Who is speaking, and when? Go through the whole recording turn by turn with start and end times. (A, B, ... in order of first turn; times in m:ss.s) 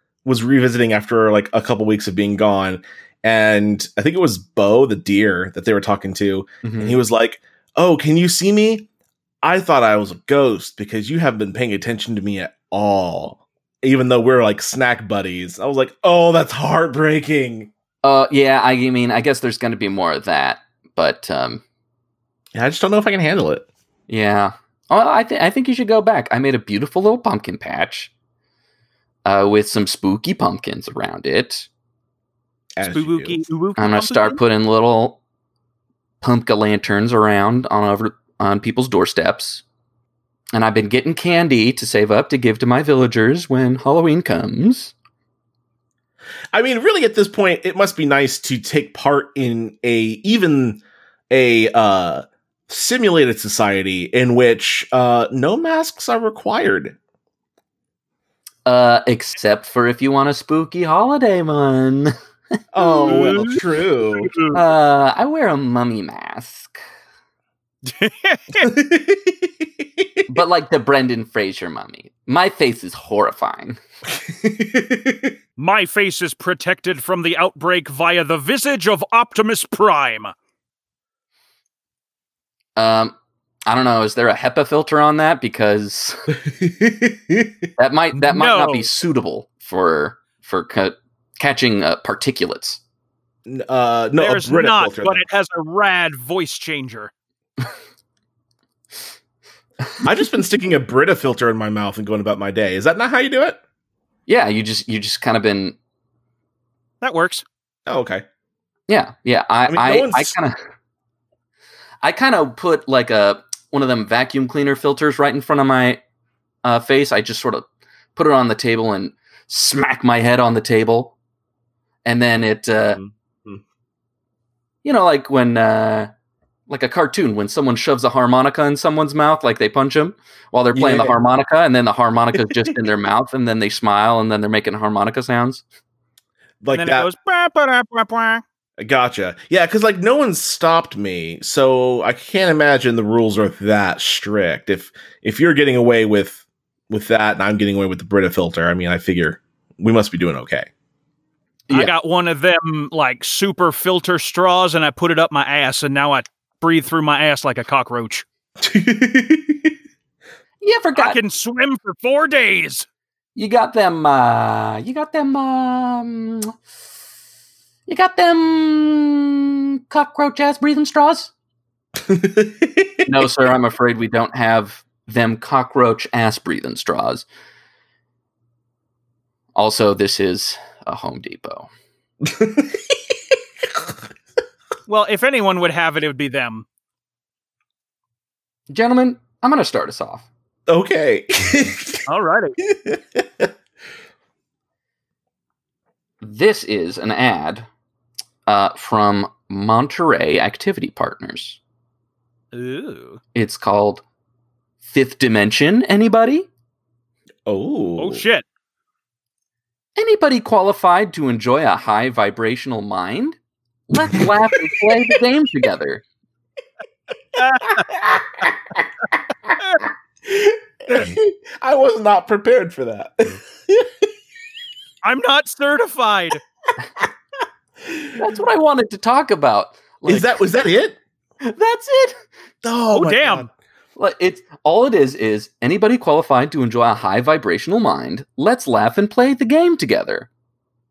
0:00.2-0:08.9 A
0:06.6-0:07.0 B
0:09.4-0:17.7 A
0:18.0-0:21.6 B
0:22.5-0:23.6 A
0:24.1-0:28.1 B
0:29.2-0:31.7 B
0:32.8-0:33.4 A
0:32.8-0:34.4 C
0:33.8-0:35.2 B
0:36.2-0:39.6 B
0:40.5-0:44.9 B
0:46.5-0:57.0 A
0:58.6-1:02.1 B
1:02.7-1:04.3 A
1:02.9-1:03.6 C
1:03.0-1:03.5 B
1:04.2-1:04.6 C
1:04.5-1:06.8 B
1:07.8-1:08.7 C
1:08.6-1:10.2 A
1:10.3-1:13.8 B
1:14.1-1:15.3 A
1:15.6-1:20.3 C
1:22.8-1:23.1 B
1:23.7-1:26.3 B
1:26.4-1:27.5 A
1:27.8-1:32.8 B
1:28.1-1:28.9 C
1:33.4-1:35.2 A
1:34.2-1:37.1 C
1:40.0-1:43.6 A
1:44.3-1:45.8 B
1:47.0-1:47.4 C
1:47.8-1:48.2 A
1:48.9-1:50.6 B
1:49.7-1:50.3 A
1:52.0-1:56.0 B
1:56.6-1:57.6 B
1:58.2-2:01.1 B
2:02.0-2:03.0 B
2:02.9-2:03.6 A
2:04.8-2:06.1 B
2:06.7-2:15.6 B
2:10.7-2:11.2 A
2:12.3-2:12.8 A
2:16.6-2:17.1 A
2:16.7-2:18.4 C
2:18.8-2:30.7 A
2:31.7-2:38.2 C
2:38.6-2:39.7 A
2:40.6-2:41.2 B
2:41.0-2:42.8 C
2:43.4-2:46.5 B
2:47.9-2:51.3 B
2:52.0-2:53.0 A
2:53.0-2:57.2 B
2:59.5-3:01.7 B
3:02.2-3:03.0 A
3:04.9-3:06.6 C
3:08.7-3:10.3 B
3:10.7-3:12.0 A
3:12.1-3:12.6 C
3:12.6-3:13.5 A
3:16.2-3:17.7 B
3:18.5-3:21.6 B
3:22.5-3:23.2 C
3:23.3-3:24.0 B
3:24.8-3:26.5 B
3:27.4-3:28.2 A
3:28.0-3:28.4 C
3:30.0-3:33.4 B
3:33.9-3:36.0 B
3:37.3-3:38.0 C
3:37.8-3:38.5 A
3:40.2-3:44.1 A
3:45.0-3:46.4 C
3:48.1-3:50.4 B
3:50.0-3:51.0 A
3:51.4-3:52.2 B
3:52.6-3:53.5 A
3:52.9-3:53.5 C
3:54.0-4:00.3 B